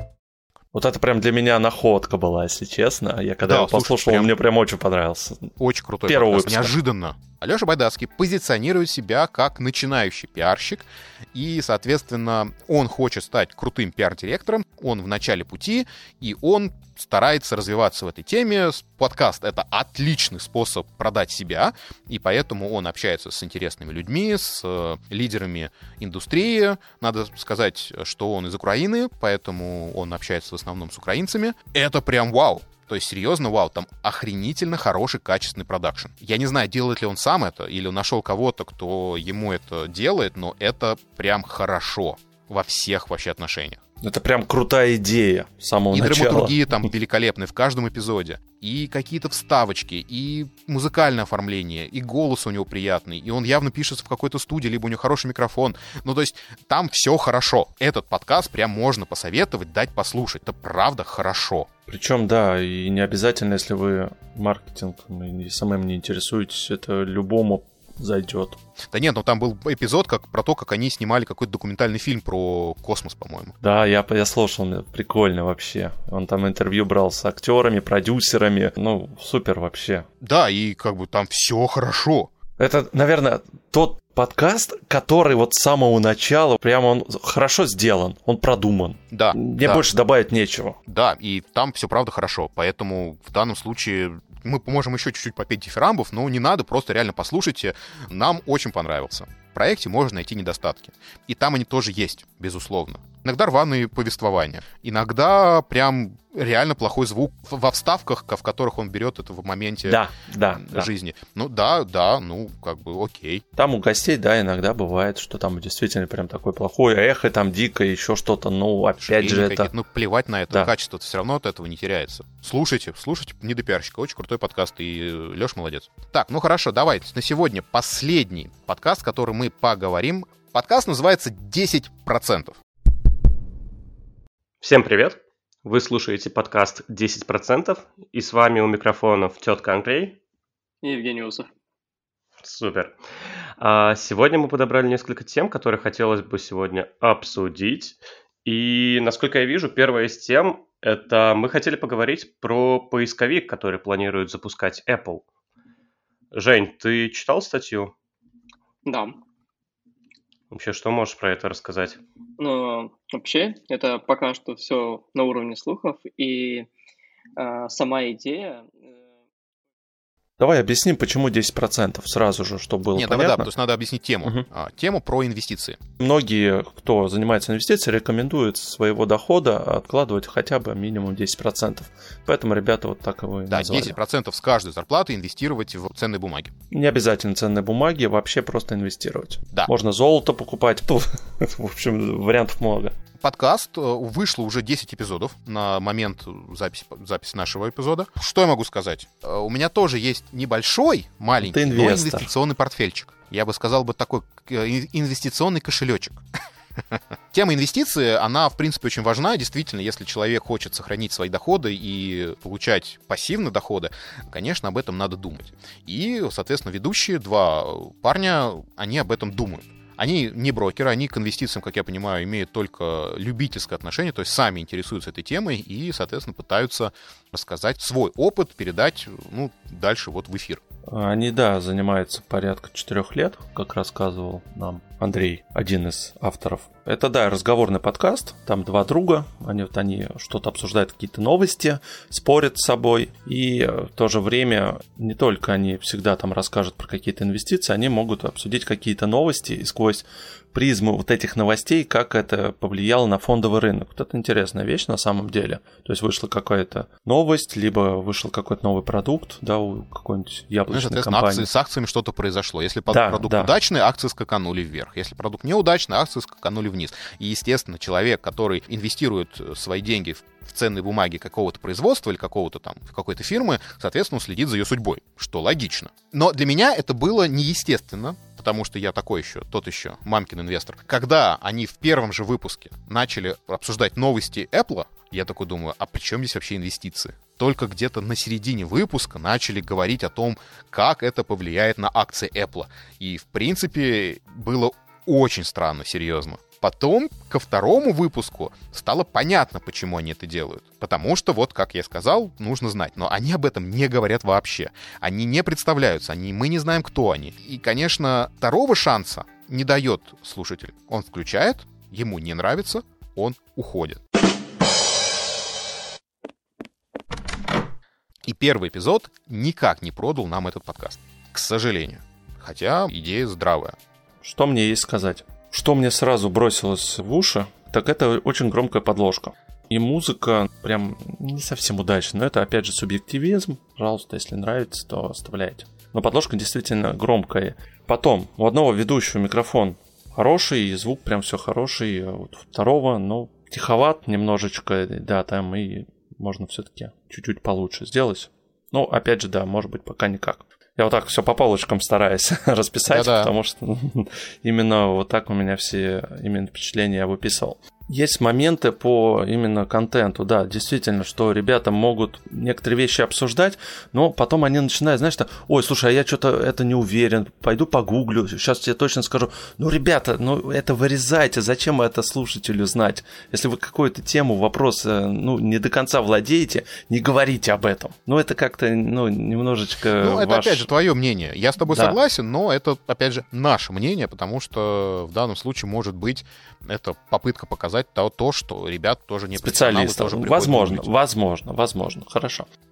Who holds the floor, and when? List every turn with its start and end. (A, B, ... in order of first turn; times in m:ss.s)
0:00.7-0:05.5 A
0:03.4-0:04.3 B
0:05.6-0:43.8 B
0:06.0-0:06.8 A
0:44.0-0:46.6 A
0:45.9-1:01.7 B
1:01.9-1:08.6 A
1:08.9-1:13.5 B
1:13.6-1:20.0 A
1:20.2-1:22.3 B
1:22.6-1:30.8 A
1:29.1-1:29.9 B
1:30.9-1:50.0 B
1:49.8-1:50.9 A
1:50.6-1:53.4 B
1:53.6-1:59.7 A
1:59.0-2:12.6 B
2:14.6-2:20.2 C
2:20.8-2:21.5 D
2:22.4-2:23.0 C
2:23.6-2:35.2 C
2:36.3-2:37.9 C
2:38.8-2:39.2 D
2:40.5-2:42.0 C
2:42.4-2:46.7 D
2:47.4-2:48.9 D
2:50.4-2:53.5 A
2:52.9-2:55.8 B
2:56.0-3:04.0 A
3:03.5-3:06.5 B
3:06.7-3:12.9 A
3:13.2-3:26.2 B
3:21.4-3:22.3 A
3:27.3-3:50.6 B
3:50.9-4:21.5 A
4:20.7-5:14.0 B
4:22.9-4:23.5 A
5:18.2-5:23.8 B
5:24.2-6:20.7 A
5:52.9-5:53.3 B
6:20.0-6:30.9 B
6:21.6-6:22.0 A
6:29.4-6:32.5 A